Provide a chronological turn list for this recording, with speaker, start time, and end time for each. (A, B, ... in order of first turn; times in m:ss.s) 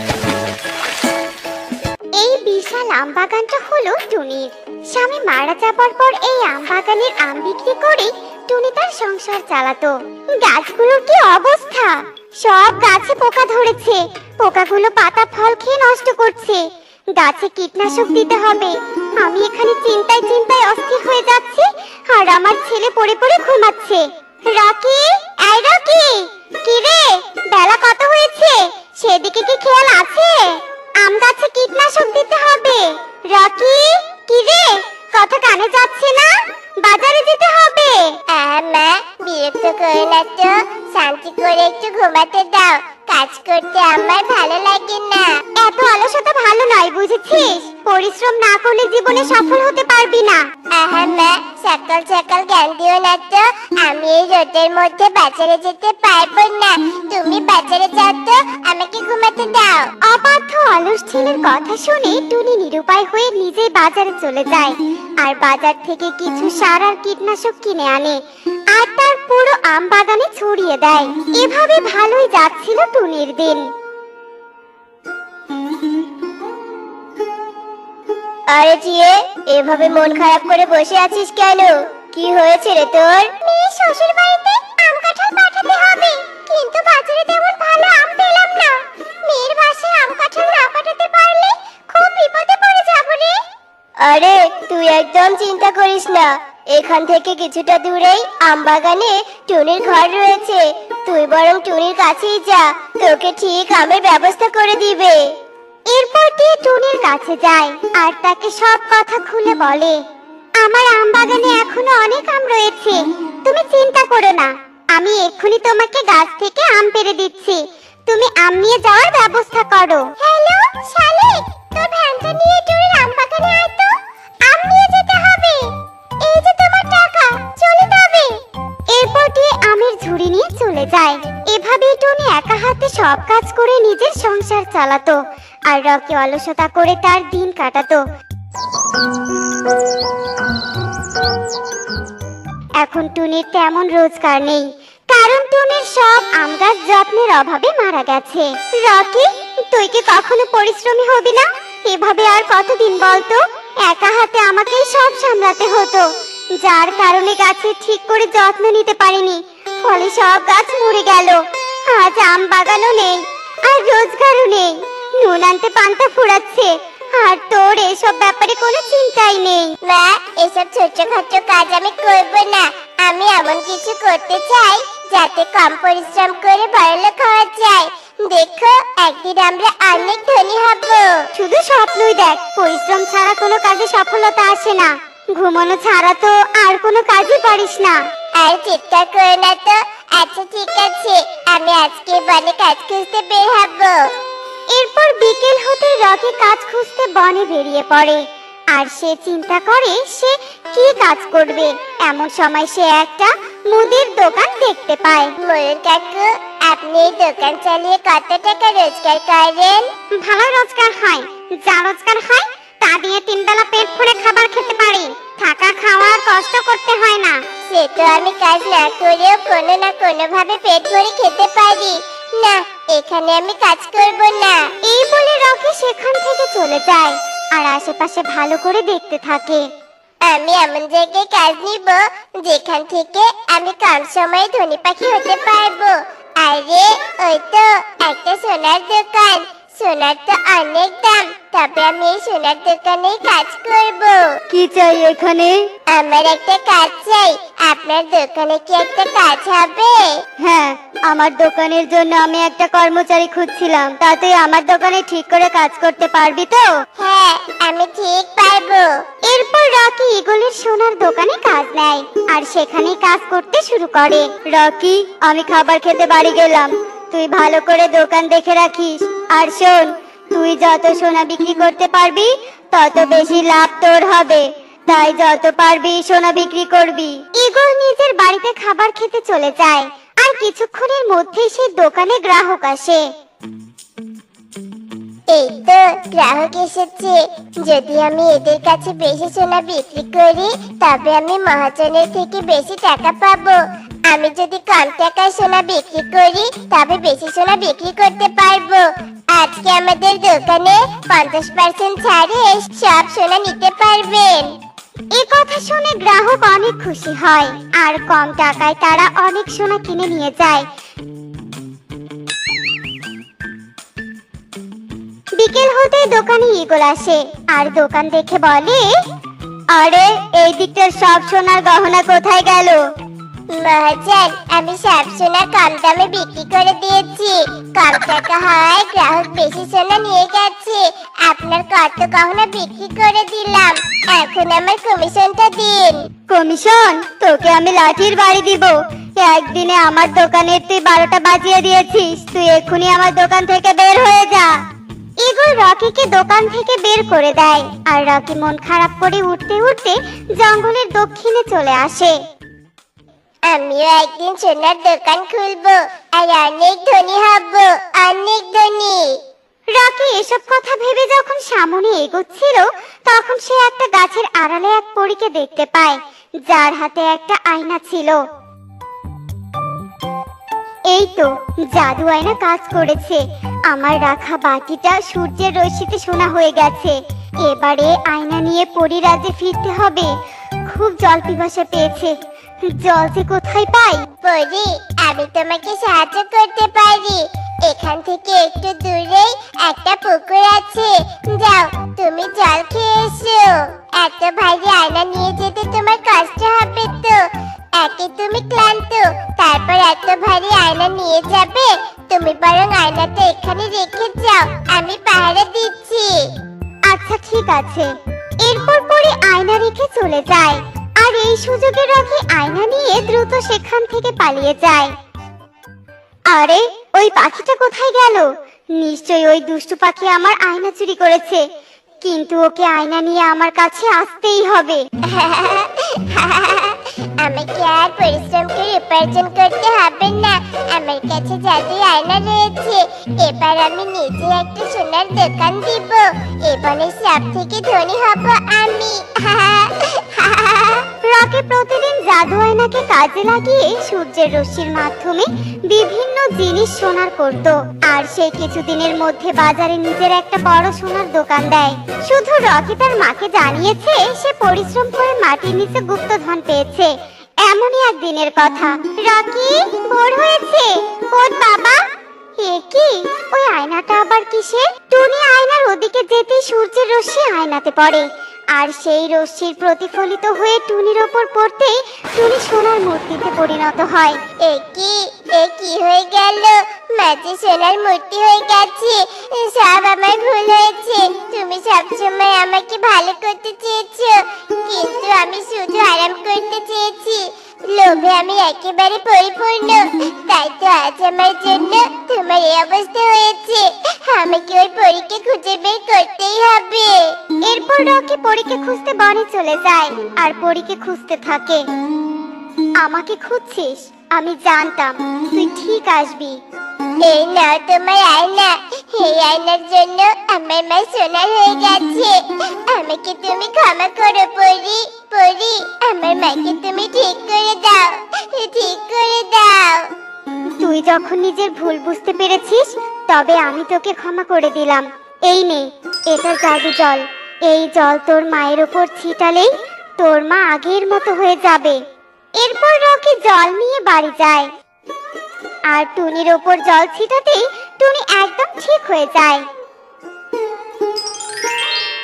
0:02.2-0:38.2 A
0:38.3-0:45.4 B
0:45.5-0:50.5 A
0:50.7-0:59.9 B
1:00.0-1:13.7 A
1:18.5-1:21.8 B
1:21.1-1:21.4 A
1:22.1-1:33.4 A
1:34.0-1:45.2 B
1:45.9-1:50.0 A
1:50.6-2:00.1 A
2:00.2-2:03.7 B
2:04.6-2:05.6 A
2:07.2-2:07.5 A
2:07.6-2:07.9 B
2:08.9-2:18.0 A
2:22.8-2:49.7 A
2:49.8-3:01.3 B
3:01.3-3:08.0 A
3:08.3-3:14.1 B
3:14.7-3:25.3 A
3:25.4-3:29.9 B
3:30.1-3:37.5 A
3:37.7-3:44.7 B
3:44.8-3:49.7 A
3:50.2-4:04.4 B
4:04.5-4:05.7 A
4:05.9-4:10.2 B
4:10.4-4:16.8 A
4:17.0-4:19.0 B
4:19.2-4:43.1 A
4:45.3-5:04.6 B
5:05.1-5:10.6 A
5:15.3-5:18.9 A
5:19.7-5:22.8 A
5:23.5-5:36.1 B
5:36.3-5:44.5 A
5:45.2-5:52.2 A
5:53.4-5:59.2 B
5:59.7-6:08.2 A
6:10.9-6:20.1 A
6:20.6-6:24.1 A
6:24.2-6:46.3 B
6:46.8-6:54.9 A
6:56.3-7:01.4 A
7:02.0-7:04.8 A
7:05.0-7:20.9 B
7:21.0-7:41.8 A
7:42.4-7:54.2 A
7:54.4-8:17.2 B
8:17.4-8:21.6 A
8:22.8-8:26.4 A
8:27.0-8:39.9 B
8:40.6-8:51.8 A
8:52.4-8:54.5 A
8:55.7-8:59.4 A